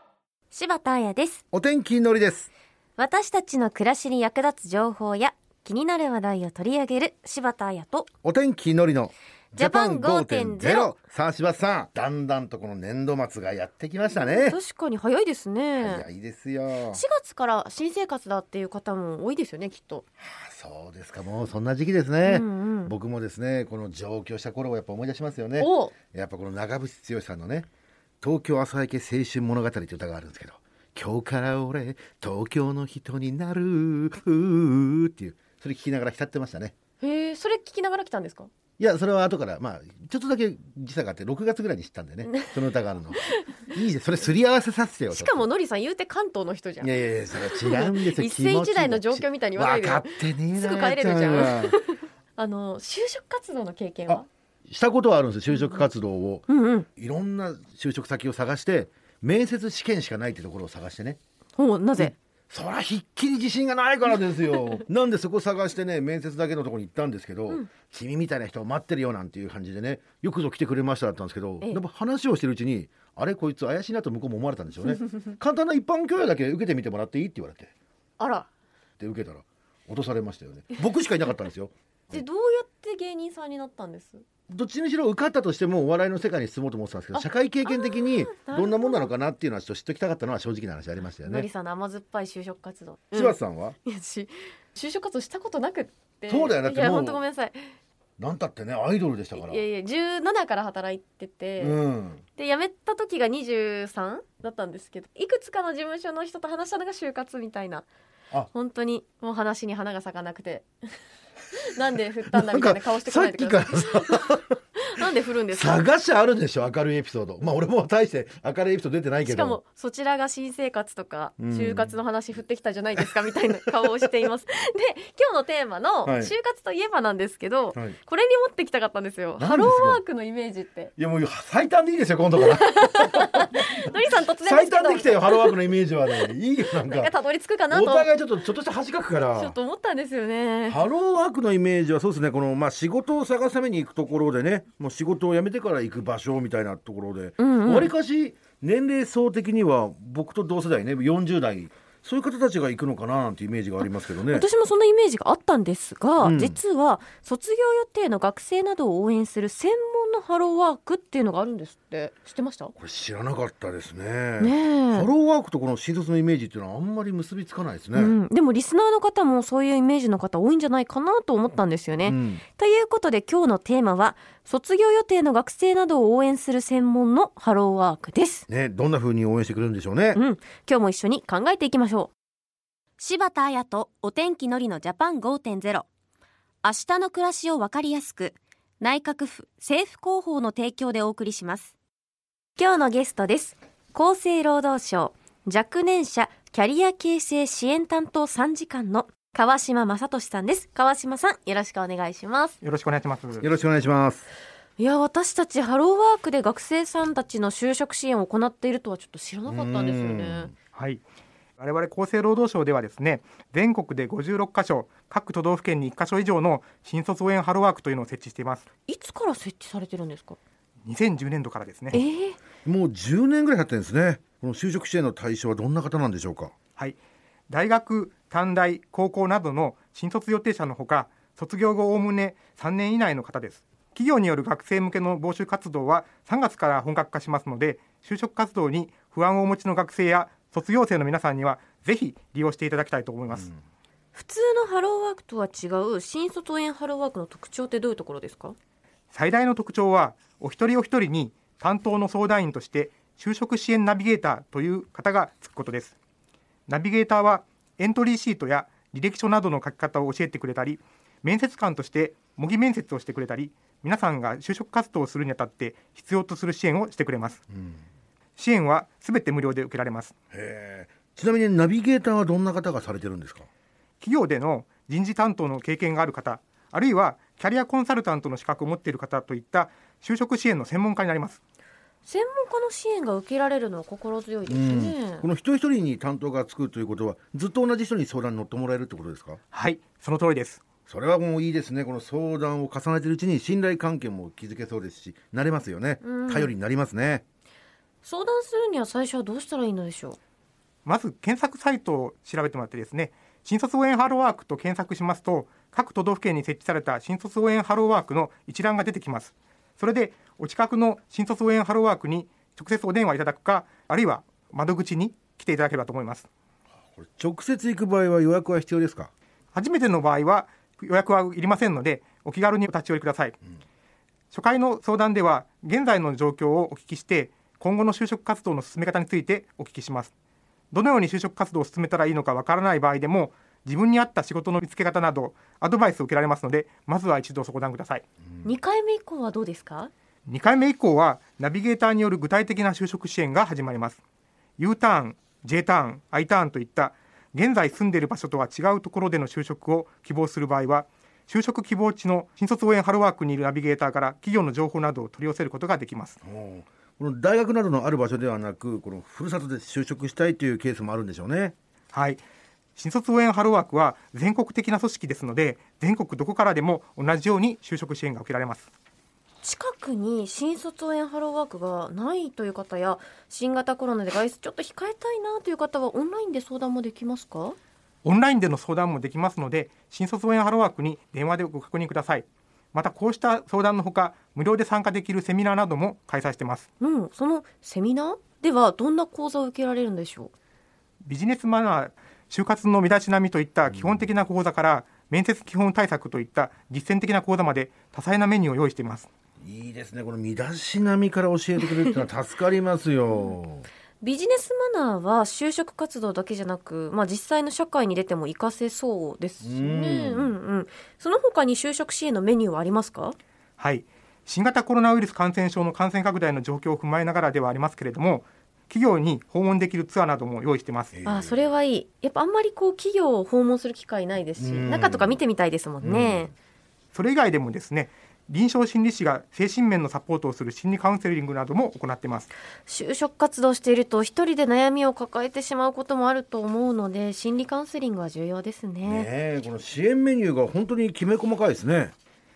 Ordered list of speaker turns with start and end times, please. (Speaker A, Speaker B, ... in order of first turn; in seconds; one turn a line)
Speaker A: 0.5-1.4
Speaker B: 1.5-2.5
Speaker A: 3.0-8.1
Speaker B: 8.2-14.6
Speaker A: 9.6-10.9
Speaker A: 14.1-16.1
Speaker B: 15.8-17.0
Speaker A: 16.9-20.0
Speaker B: 20.2-27.7
Speaker A: 22.2-22.9
Speaker A: 25.6-25.9
Speaker B: 28.2-36.7
Speaker A: 37.0-38.5
Speaker B: 38.8-45.4
Speaker A: 45.1-46.9
Speaker B: 46.8-51.8
Speaker A: 47.4-54.3
Speaker B: 54.1-61.2
Speaker A: 55.5-55.8
Speaker A: 56.5-56.9
Speaker A: 61.6-62.1
Speaker B: 62.0-77.7
Speaker A: 64.4-64.8
Speaker A: 78.2-78.5
Speaker B: 79.0-82.2
Speaker A: 82.1-84.2
Speaker B: 84.5-91.5
Speaker A: 87.1-89.1
Speaker A: 91.2-97.6
Speaker B: 93.1-93.8
Speaker B: 96.3-97.2
Speaker B: 98.2-99.6
Speaker A: 99.3-101.8
Speaker B: 101.6-102.2
Speaker A: 102.3-107.9
Speaker A: 108.5-110.7
Speaker A: 111.5-115.8
Speaker B: 112.3-114.5
Speaker B: 115.5-119.6
Speaker A: 119.2-130.9
Speaker B: 121.4-122.0
Speaker B: 126.0-126.3
Speaker B: 129.4-130.0
Speaker B: 131.0-137.1
Speaker A: 132.4-135.6
Speaker A: 136.8-138.1
Speaker B: 137.7-139.6
Speaker A: 139.3-140.8
Speaker B: 140.7-154.5
Speaker A: 147.4-147.9
Speaker A: 154.3-162.7
Speaker B: 156.2-156.6
Speaker B: 162.8-168.1
Speaker A: 164.4-165.1
Speaker A: 167.9-178.4
Speaker B: 172.0-172.4
Speaker B: 178.5-180.2
Speaker A: 180.1-182.1
Speaker A: 183.0-185.8
Speaker A: 186.6-191.7
Speaker A: 192.6-202.6
Speaker C: 202.6-203.4
Speaker B: 203.4-204.3
Speaker A: 204.8-210.5
Speaker B: 209.5-210.5
Speaker C: 210.7-211.0
Speaker C: 211.6-218.7
Speaker A: 218.9-220.4
Speaker C: 220.8-222.0
Speaker A: 221.9-222.4
Speaker B: 222.6-226.5
Speaker C: 227.5-243.5
Speaker A: 244.1-248.6
Speaker C: 249.1-255.9
Speaker C: 256.7-267.4
Speaker B: 267.5-267.8
Speaker C: 268.4-270.1
Speaker B: 270.3-273.5
Speaker C: 274.0-281.4
Speaker A: 282.0-285.2
Speaker B: 284.5-289.4
Speaker C: 289.5-290.6
Speaker B: 290.9-297.2
Speaker A: 296.0-296.5
Speaker A: 298.0-300.2
Speaker C: 300.9-316.3
Speaker B: 316.9-319.1
Speaker C: 319.5-323.4
Speaker C: 324.3-330.1
Speaker C: 330.7-338.0
Speaker A: 338.4-339.9
Speaker C: 340.2-344.0
Speaker C: 344.6-356.2
Speaker B: 356.2-361.6
Speaker C: 361.9-362.2
Speaker C: 362.8-368.7
Speaker A: 369.4-377.6
Speaker C: 378.0-386.7
Speaker A: 386.8-390.3
Speaker C: 391.0-399.1
Speaker B: 393.7-394.1
Speaker B: 399.4-403.6
Speaker A: 404.0-413.1
Speaker B: 409.4-410.3
Speaker C: 413.6-420.9
Speaker B: 420.9-421.5
Speaker A: 421.0-426.3
Speaker B: 424.4-425.2
Speaker B: 425.8-426.3
Speaker C: 426.9-432.3
Speaker A: 432.6-439.1
Speaker B: 438.8-441.9